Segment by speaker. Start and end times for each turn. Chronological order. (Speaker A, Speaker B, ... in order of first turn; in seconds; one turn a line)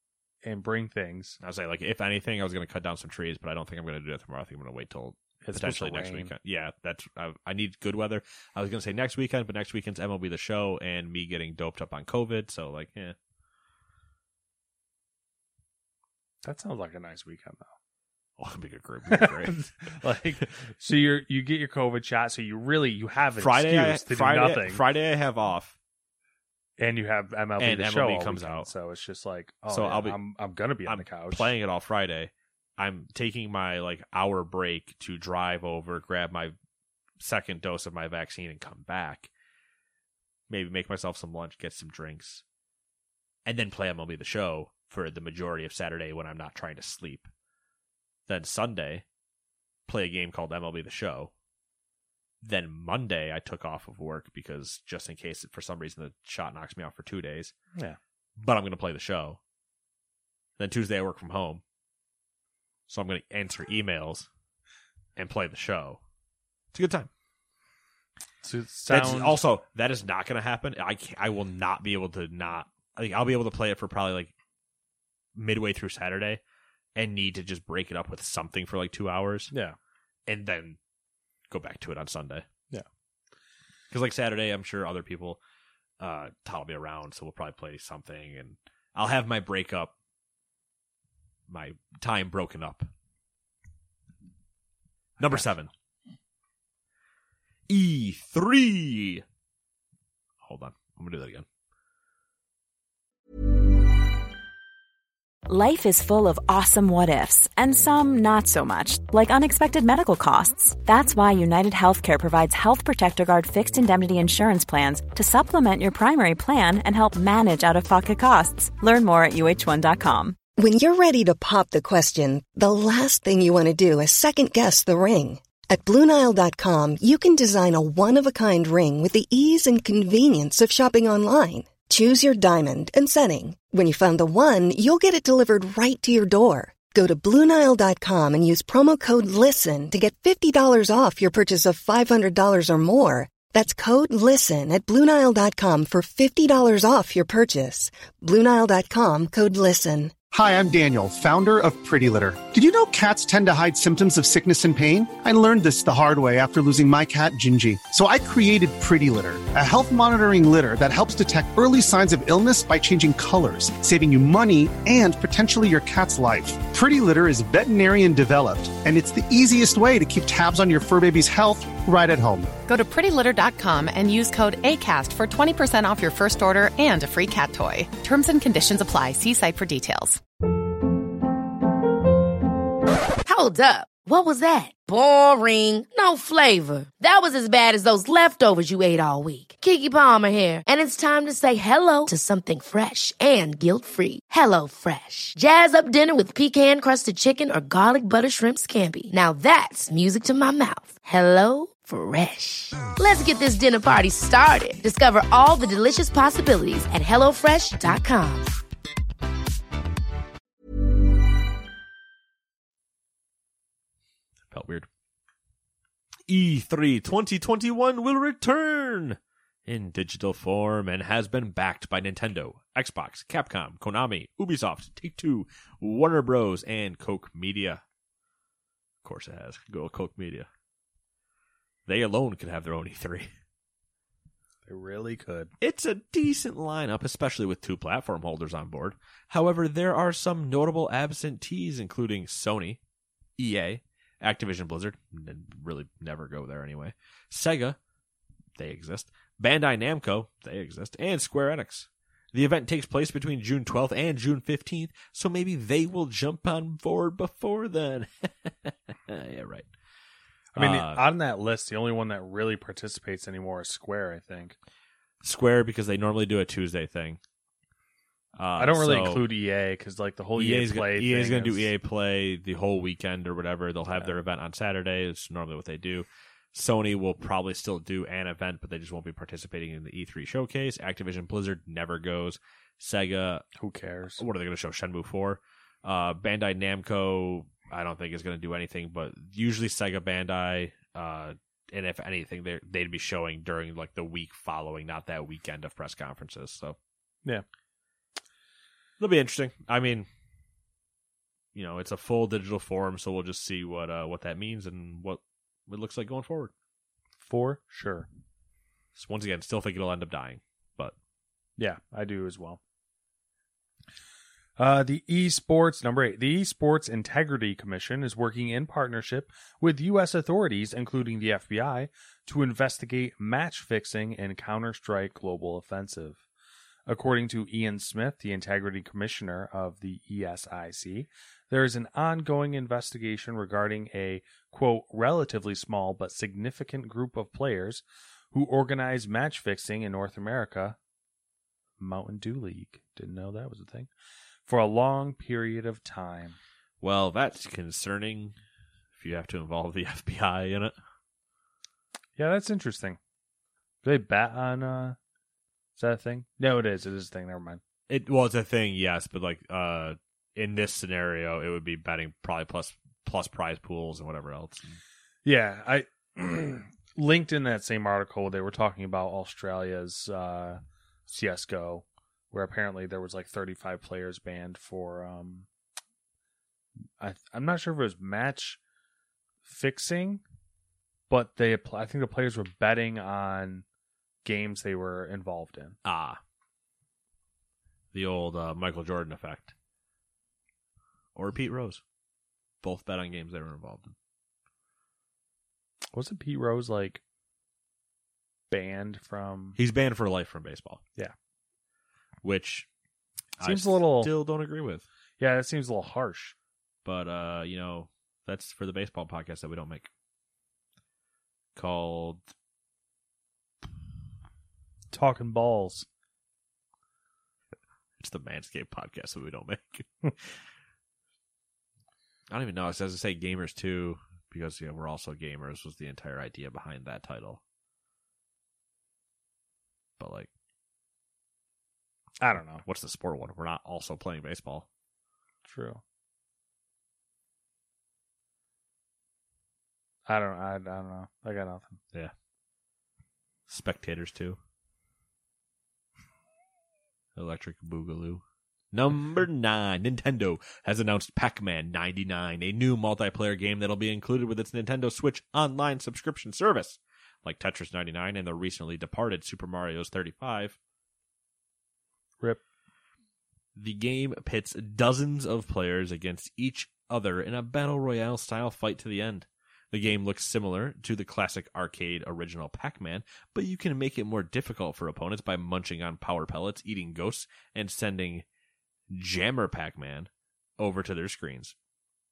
Speaker A: 0.4-1.4
Speaker B: 1.4-13.1
Speaker A: 5.4-6.3
Speaker A: 16.4-17.7
Speaker B: 18.4-19.7
Speaker A: 19.1-24.8
Speaker B: 23.4-25.8
Speaker A: 26.8-31.5
Speaker B: 27.6-28.7
Speaker B: 29.7-30.2
Speaker B: 30.9-36.5
Speaker B: 37.2-39.3
Speaker B: 40.5-42.4
Speaker B: 43.5-47.3
Speaker B: 48.3-49.0
Speaker B: 49.9-51.3
Speaker B: 52.4-57.5
Speaker B: 58.4-59.4
Speaker B: 60.6-61.6
Speaker B: 62.9-64.3
Speaker B: 65.2-66.0
Speaker B: 66.7-67.1
Speaker A: 68.4-69.4
Speaker B: 68.9-74.3
Speaker B: 75.3-76.4
Speaker B: 76.9-79.5
Speaker B: 80.2-80.8
Speaker B: 81.5-82.4
Speaker B: 83.9-85.4
Speaker B: 86.0-89.9
Speaker B: 91.5-92.9
Speaker B: 95.2-95.7
Speaker B: 97.7-99.2
Speaker B: 100.4-101.4
Speaker C: 105.5-120.4
Speaker D: 120.6-150.1
Speaker E: 150.3-172.5
Speaker F: 172.7-180.2
Speaker G: 183.2-208.5
Speaker B: 214.5-214.9
Speaker B: 216.3-227.8
Speaker B: 229.0-230.5
Speaker B: 231.9-233.3
Speaker A: 234.7-235.5
Speaker B: 235.6-242.8
Speaker B: 243.4-247.8
Speaker B: 248.6-259.7
Speaker A: 260.5-264.6
Speaker B: 260.6-261.0
Speaker B: 265.2-267.2
Speaker B: 268.4-269.2
Speaker A: 268.6-271.7
Speaker B: 270.4-283.4
Speaker A: 283.6-284.2
Speaker B: 284.2-296.8
Speaker B: 299.0-300.1
Speaker B: 301.5-306.5
Speaker A: 307.2-308.1
Speaker B: 308.9-310.9
Speaker A: 311.6-312.6
Speaker A: 314.6-326.2
Speaker A: 326.9-340.8
Speaker A: 341.8-343.9
Speaker A: 344.4-346.4
Speaker B: 346.8-348.3
Speaker B: 348.9-350.7
Speaker A: 352.1-353.0
Speaker A: 353.8-355.0
Speaker A: 355.8-357.6
Speaker B: 357.9-364.8
Speaker A: 365.2-375.5
Speaker A: 377.0-378.6
Speaker A: 379.4-380.2
Speaker A: 381.1-383.6
Speaker A: 384.2-385.8
Speaker B: 385.8-386.2
Speaker B: 387.9-389.5
Speaker B: 391.1-391.8
Speaker B: 392.6-393.9
Speaker A: 395.9-397.0
Speaker A: 398.5-399.6
Speaker B: 399.6-400.8
Speaker B: 402.2-402.7
Speaker B: 403.4-404.8
Speaker A: 403.4-404.1
Speaker A: 405.2-406.3
Speaker B: 406.8-409.9
Speaker B: 411.5-412.2
Speaker A: 414.9-415.9
Speaker B: 418.0-420.4
Speaker B: 422.3-427.4
Speaker B: 430.0-430.3
Speaker A: 432.2-432.6
Speaker B: 432.6-434.7
Speaker A: 435.4-435.8
Speaker A: 440.1-441.8
Speaker B: 443.5-444.4
Speaker B: 447.1-460.6
Speaker B: 463.6-478.2
Speaker B: 478.9-481.5